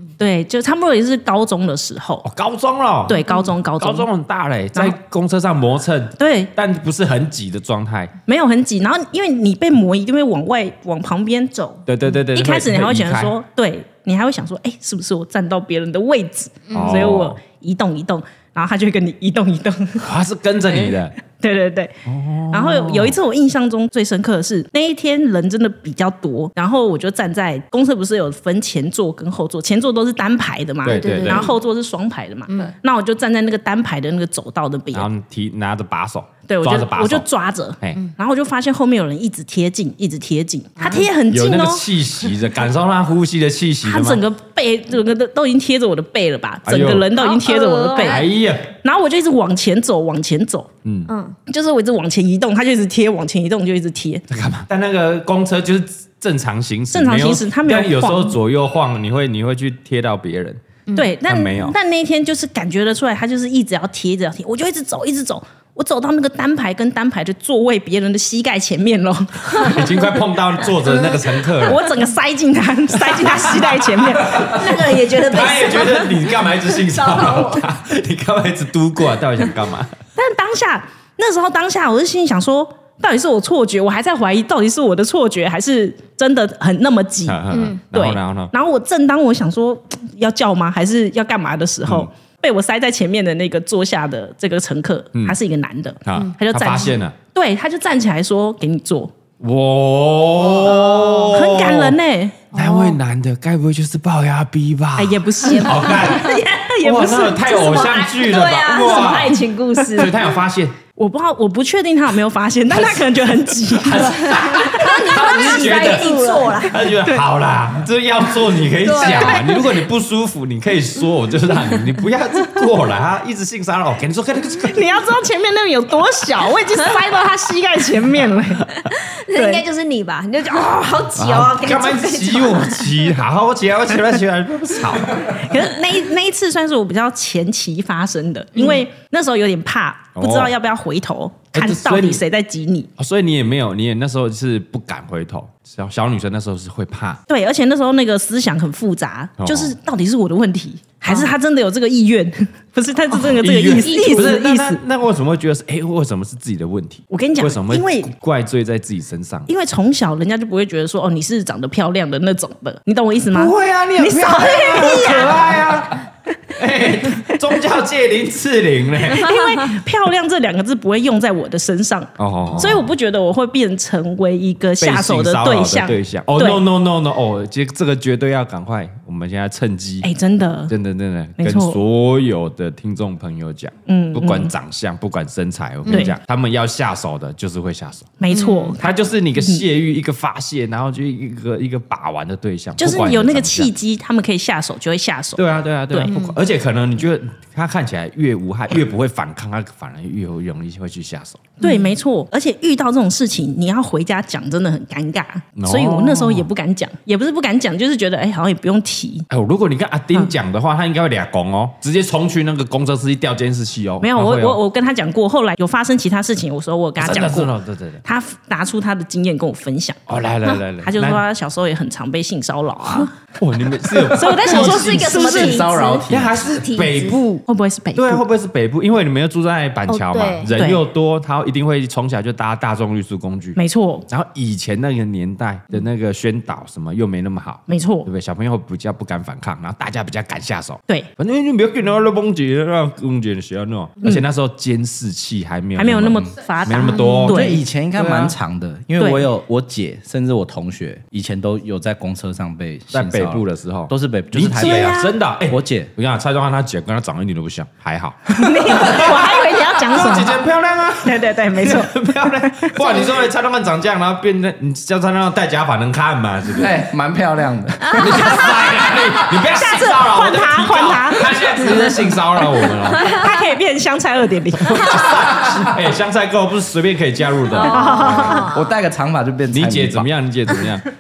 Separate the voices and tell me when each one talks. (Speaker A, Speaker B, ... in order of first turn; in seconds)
Speaker A: 0.2-2.2, 3.1-4.1, 6.2-6.5, 8.3-20.1, 21.3-35.1, 36.5-41.9, 43.8-50.7, 51.5-54.2, 56.9-58.4, 61.0-69.9, 71.6-74.5, 80.2-99.1, 101.2-102.5, 105.0-108.0, 108.8-110.1, 111.0-116.1, 119.0-119.4, 124.6-128.8, 129.3-129.6, 135.2-142.9, 147.3-154.8, 157.1-158.1, 159.5-165.6, 169.1-176.6, 180.0-180.7, 181.4-181.8, 183.9-184.5, 185.9-186.1, 188.2-189.6, 192.8-196.1, 201.6-209.3, 214.0-217.5, 218.0-220.0, 220.8-223.1, 224.1-225.8, 227.2-228.2, 230.6-230.8, 233.6-234.1, 237.7-238.1, 245.8-247.6, 249.0-249.3, 258.4-260.4, 261.0-263.0, 269.5-271.7, 272.9-275.0, 277.5-278.5
Speaker B: 2.2-3.2, 3.8-8.1, 11.9-13.3, 16.7-17.4, 20.0-21.1, 22.1-23.1, 30.8-31.5, 34.9-37.2, 41.3-44.2, 46.6-47.1, 48.0-48.7, 50.9-51.1, 54.3-60.6, 61.3-61.8, 69.5-71.8, 73.1-80.0, 87.3-88.5, 91.8-92.1, 96.1-97.2, 99.4-102.0, 102.5-110.8, 112.7-124.9, 131.1-135.4, 140.1-140.5, 141.5-142.2, 143.0-147.2, 149.4-149.8, 151.1-151.3, 153.1-159.5, 163.3-169.3, 172.2-172.9, 174.8-180.1, 180.7-188.1, 188.8-193.7, 195.4-201.6, 205.6-206.5, 209.3-214.6, 217.0-218.0, 220.1-221.2, 223.4-225.2, 226.1-227.3, 227.9-233.6, 234.1-247.5, 248.0-248.3, 252.9-266.8, 267.9-273.2, 274.6-278.4, 279.5-280.9
Speaker C: 16.7-17.0, 30.9-31.6, 40.8-41.1, 47.1-48.3, 51.1-51.4, 70.9-71.2, 74.3-77.6, 87.5-87.8, 100.5-101.3, 102.5-103.0, 105.5-106.4, 107.3-110.2, 114.3-116.8, 118.8-119.7, 128.9-132.9, 153.8-154.4, 169.3-169.6, 185.9-186.1, 188.3-188.8, 196.1-196.4, 224.4-227.2, 229.9-230.5, 246.8-247.2, 267.9-268.3, 272.9-273.5, 274.8-275.2, 277.5-278.7
Speaker D: 224.4-226.4, 247.3-255.9, 266.5-268.6, 278.2-280.1